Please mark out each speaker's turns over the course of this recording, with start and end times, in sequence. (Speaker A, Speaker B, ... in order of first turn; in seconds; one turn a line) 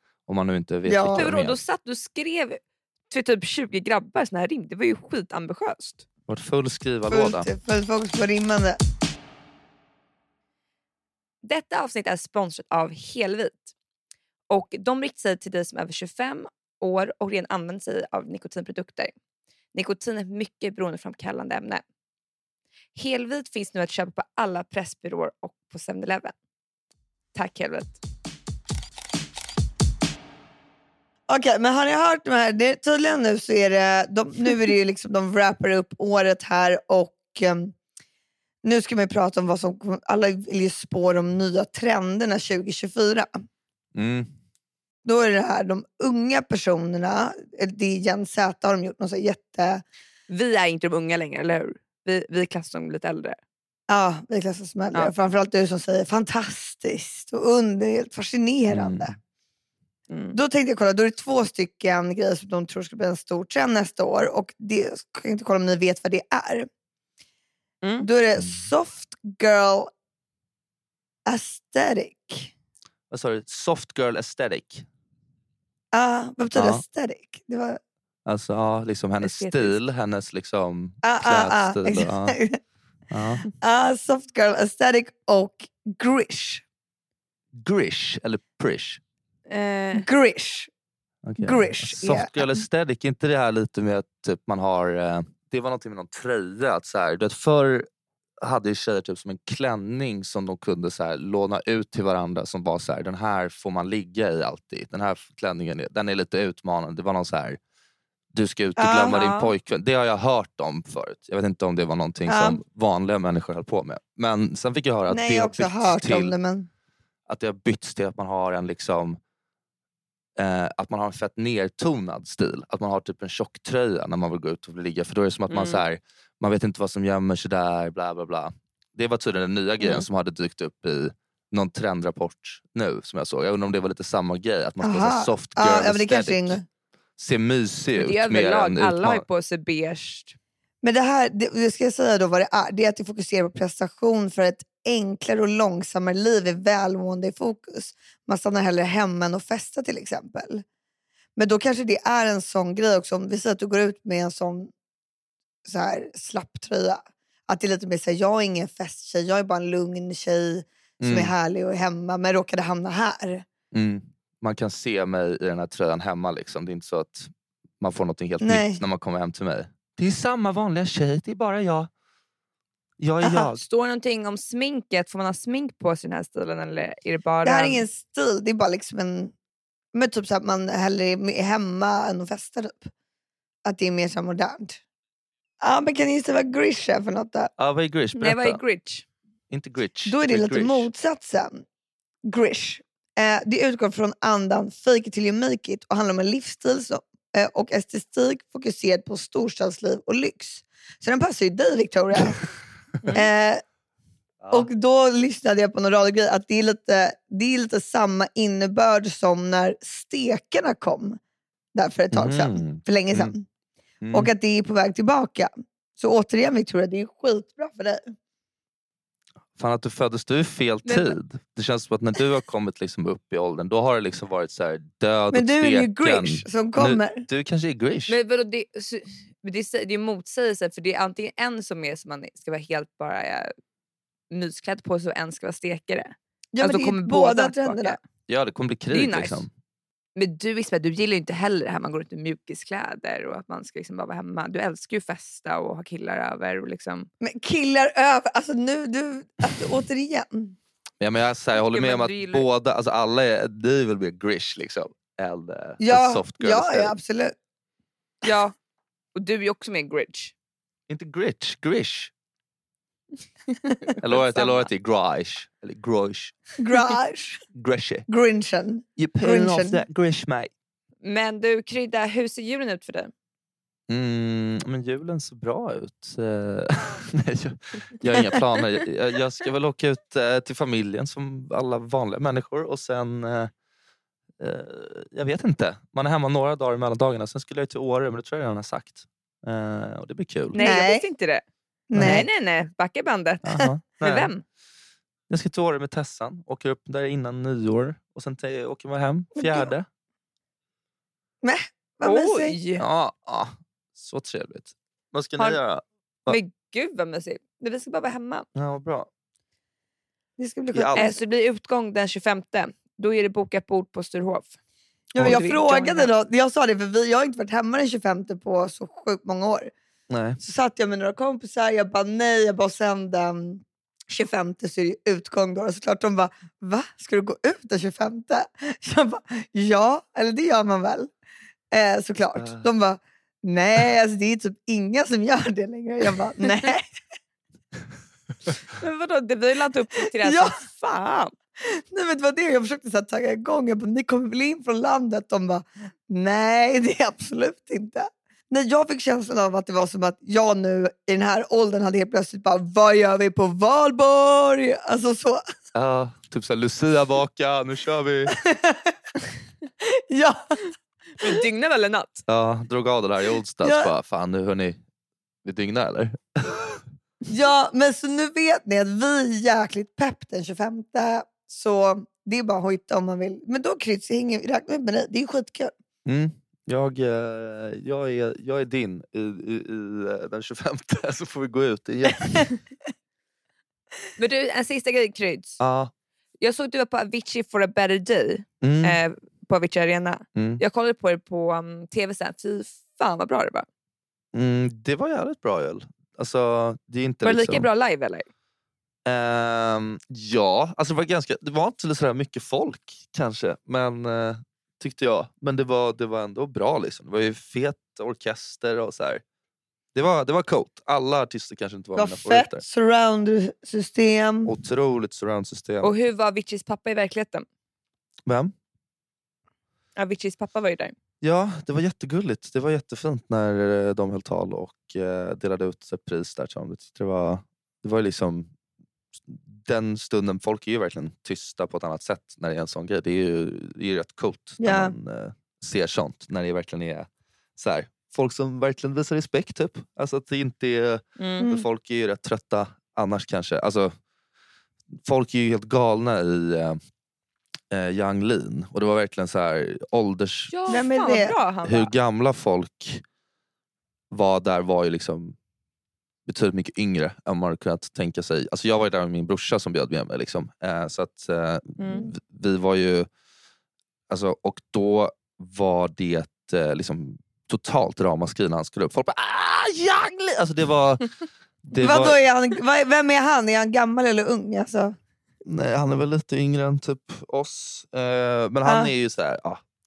Speaker A: 0.3-1.6
Speaker B: 0.9-1.2
Speaker C: 1.1-6.0
Speaker A: 6.3-7.5
Speaker B: 7.1-8.8
Speaker C: 11.4-13.7
Speaker C: 14.5-19.1
Speaker C: 19.7-21.8
Speaker C: 22.9-26.4
Speaker C: 27.3-28.0
Speaker B: 31.3-37.8
Speaker B: 38.6-43.3
Speaker A: 44.0-44.3
Speaker B: 45.0-49.8
Speaker C: 50.3-53.4
Speaker B: 53.9-59.1
Speaker A: 58.7-59.1
Speaker C: 60.1-60.4
Speaker B: 60.3-66.7
Speaker C: 67.8-68.1
Speaker B: 68.0-69.9
Speaker A: 68.4-68.6
Speaker B: 71.2-72.5
Speaker A: 73.1-74.9
Speaker B: 75.9-77.8
Speaker A: 76.5-76.8
Speaker A: 78.2-82.4
Speaker C: 79.2-79.8
Speaker B: 81.0-82.6
Speaker A: 83.1-83.5
Speaker B: 83.6-86.6
Speaker A: 87.6-89.0
Speaker C: 89.5-90.1
Speaker B: 90.0-90.7
Speaker A: 91.2-97.9
Speaker B: 91.4-92.6
Speaker A: 98.4-107.6
Speaker A: 108.3-116.3
Speaker B: 108.8-109.2
Speaker C: 109.1-109.5
Speaker B: 112.3-112.6
Speaker B: 115.1-116.7
Speaker A: 117.3-119.2
Speaker A: 120.4-136.6
Speaker C: 125.5-125.8
Speaker B: 134.8-136.6
Speaker A: 137.2-139.2
Speaker C: 138.0-140.4
Speaker B: 140.8-150.6
Speaker B: 151.4-154.7
Speaker B: 155.6-163.4
Speaker A: 161.0-161.3
Speaker A: 163.7-171.9
Speaker B: 168.4-168.8
Speaker A: 173.0-173.6
Speaker C: 173.5-177.9
Speaker B: 177.4-179.3
Speaker B: 179.9-182.9
Speaker B: 183.6-184.8
Speaker B: 185.6-187.5
Speaker A: 187.6-188.6
Speaker C: 188.1-189.1
Speaker A: 189.5-190.9
Speaker B: 190.1-191.6
Speaker B: 192.3-202.4
Speaker C: 203.0-203.3
Speaker B: 203.1-203.6
Speaker A: 204.4-204.7
Speaker B: 204.5-211.2
Speaker B: 211.8-213.4
Speaker A: 212.1-213.3
Speaker A: 214.0-214.3
Speaker B: 214.1-218.1
Speaker A: 219.6-228.2
Speaker C: 220.8-221.1
Speaker B: 225.3-227.2
Speaker C: 228.1-233.5
Speaker C: 234.3-238.0
Speaker B: 236.5-238.0
Speaker A: 238.3-239.5
Speaker C: 238.9-239.4
Speaker C: 240.2-247.1
Speaker B: 247.2-250.6
Speaker A: 251.0-256.9
Speaker C: 251.6-252.4
Speaker B: 255.8-257.4
Speaker C: 258.2-258.5
Speaker C: 259.1-260.3
Speaker A: 260.9-262.1
Speaker C: 263.8-264.7
Speaker A: 264.0-266.4
Speaker B: 266.6-267.4
Speaker A: 267.6-268.1
Speaker B: 268.1-269.8
Speaker A: 269.0-270.5
Speaker C: 271.0-273.1
Speaker A: 273.9-283.5
Speaker A: 284.4-290.6
Speaker C: 290.5-291.4
Speaker B: 290.6-291.1
Speaker B: 291.9-292.3
Speaker A: 291.9-292.3
Speaker C: 291.9-294.4
Speaker A: 293.4-294.3
Speaker A: 295.3-299.9
Speaker B: 299.4-299.7
Speaker B: 301.4-302.6
Speaker C: 302.0-302.8
Speaker A: 302.8-306.4
Speaker C: 306.3-308.4
Speaker A: 308.6-309.1
Speaker B: 310.4-311.2
Speaker A: 310.7-311.1
Speaker C: 310.9-314.6
Speaker B: 315.1-319.7
Speaker A: 315.2-315.4
Speaker C: 315.2-316.1
Speaker A: 320.1-320.4
Speaker B: 320.4-331.1
Speaker B: 331.7-336.9
Speaker A: 332.4-332.6
Speaker C: 338.8-341.3
Speaker B: 340.2-340.5
Speaker B: 341.6-355.4
Speaker A: 355.8-358.4
Speaker B: 358.3-358.9
Speaker B: 359.8-360.6
Speaker C: 361.2-362.2
Speaker A: 362.3-364.8
Speaker B: 363.6-363.9
Speaker A: 365.4-366.8
Speaker B: 367.3-375.7
Speaker A: 376.1-382.5
Speaker C: 384.2-385.6
Speaker A: 385.6-385.9
Speaker C: 386.4-393.7
Speaker A: 388.6-389.0
Speaker A: 390.4-390.6
Speaker A: 394.3-397.7
Speaker C: 397.2-398.3
Speaker A: 399.1-409.2
Speaker A: 409.9-412.6
Speaker B: 411.9-414.5
Speaker A: 414.4-415.9
Speaker C: 415.8-417.4
Speaker A: 418.3-418.5
Speaker C: 419.9-420.9
Speaker A: 421.2-428.5
Speaker A: 429.3-443.9
Speaker B: 434.6-434.9
Speaker C: 441.2-441.5
Speaker B: 441.4-441.6
Speaker A: 445.0-446.8
Speaker A: 447.7-450.6
Speaker C: 450.5-451.9
Speaker B: 450.7-451.4
Speaker A: 451.6-453.0
Speaker A: 454.1-455.4
Speaker A: 456.3-463.1
Speaker C: 461.8-462.1
Speaker A: 464.1-471.1
Speaker A: 471.6-472.2
Speaker B: 471.8-474.9
Speaker A: 475.4-479.6
Speaker B: 478.6-478.9